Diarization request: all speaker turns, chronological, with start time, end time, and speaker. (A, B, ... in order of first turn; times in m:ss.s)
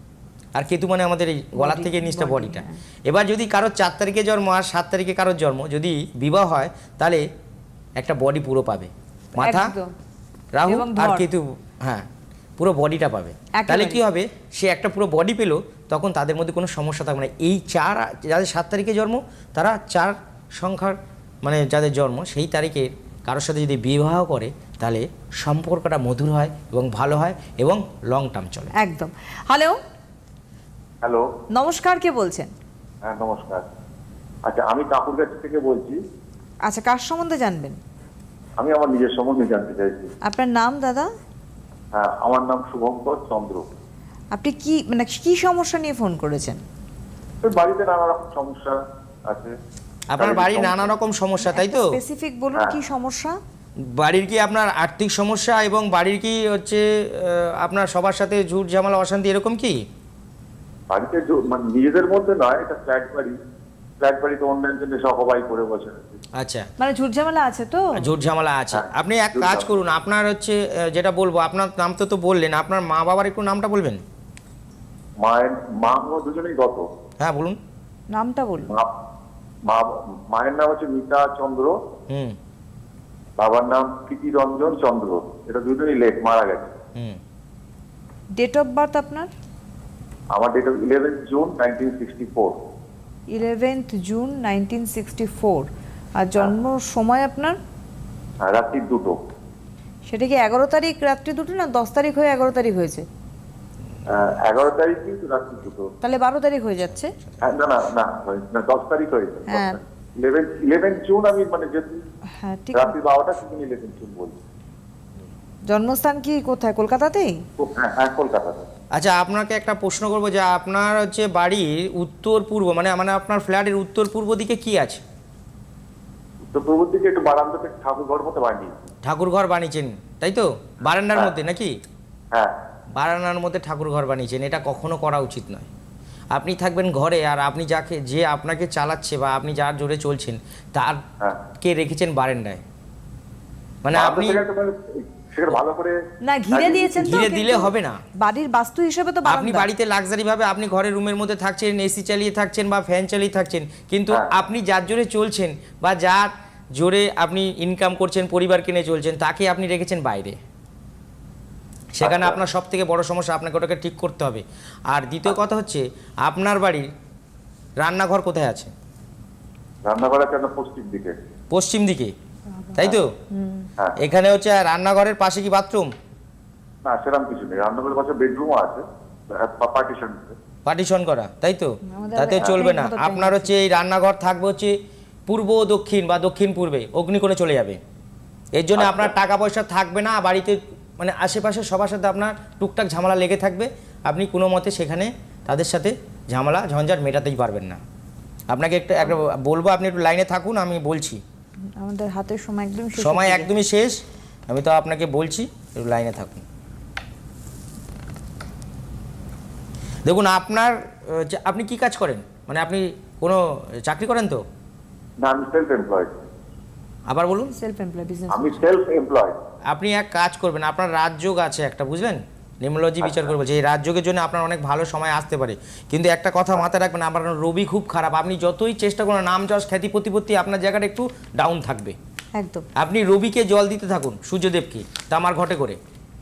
0:00.6-0:07.2 A
0:01.6-0:02.8 B
0:08.0-0:09.7 A
0:09.4-0:09.9 B
0:10.6-0:28.7 A
0:10.7-0:11.3 B
0:13.5-0:14.0 B
0:28.8-0:29.8 B
0:31.0-0:31.3 C
0:31.6-0:32.5 B
0:33.0-0:33.7 C
0:34.4-0:36.0 C
0:36.7-0:37.8 B
0:38.6-0:40.1 C
0:40.2-0:41.1 B
0:41.9-0:43.7 C
0:44.3-0:46.6 B
0:47.4-0:49.6 C
0:50.1-0:52.0 A
0:50.2-0:50.8 C
0:51.4-0:53.4 B
0:53.8-0:59.8 A
1:00.9-1:03.4 C
1:04.0-1:06.2 C
1:06.4-1:06.7 A
1:06.8-1:08.1 B
1:08.0-1:14.0 A
1:08.7-1:09.7 C
1:15.2-1:16.8 C
1:17.2-1:17.6 A
1:18.1-1:18.8 B
1:19.6-1:21.8 C
1:22.1-1:22.4 A
1:23.4-1:26.7 C
1:27.0-1:27.2 A
1:28.4-1:29.3 B
1:30.3-1:32.6 C
1:33.3-1:37.6 B
1:38.4-1:39.2 C
1:40.1-1:43.1 B
1:44.1-1:45.9 C
1:46.0-1:47.1 B
1:47.4-1:52.0 C
1:49.5-1:49.8 B
1:52.4-1:53.0 B
1:52.7-1:54.4 C
1:55.7-1:57.4 B
1:57.6-1:58.7 C
1:58.9-2:05.0 A
2:06.5-2:08.9 C
2:09.0-2:11.8 A
2:12.3-2:12.6 C
2:13.0-2:15.7 A
2:16.3-2:21.0 A
2:21.2-2:21.5 C
2:21.6-2:22.6 A
2:23.8-2:24.4 A
2:23.9-2:26.0 C
2:26.2-2:29.7 B
2:26.5-2:27.2 C
2:27.0-2:28.0 A
2:29.3-2:40.4 A
2:41.9-2:46.9 A
2:42.0-2:42.4 C
2:47.8-2:48.7 A
2:49.8-2:51.2 C
2:51.5-2:52.1 A
2:52.5-2:53.7 B
2:52.8-2:53.1 A
2:54.0-2:55.9 A
2:56.8-3:00.4 C
3:00.7-3:04.8 A
3:01.9-3:03.5 B
3:05.3-3:07.8 A
3:08.6-3:17.8 A
3:08.8-3:09.1 C
3:18.5-3:21.2 A
3:21.8-3:23.5 B
3:23.0-3:26.4 A
3:30.0-3:34.4 A
3:35.2-3:36.2 C
3:37.1-3:37.5 A
3:37.5-3:38.6 B
3:38.3-3:39.4 C
3:39.7-3:52.0 A
3:52.4-3:52.7 B
3:52.8-3:55.8 A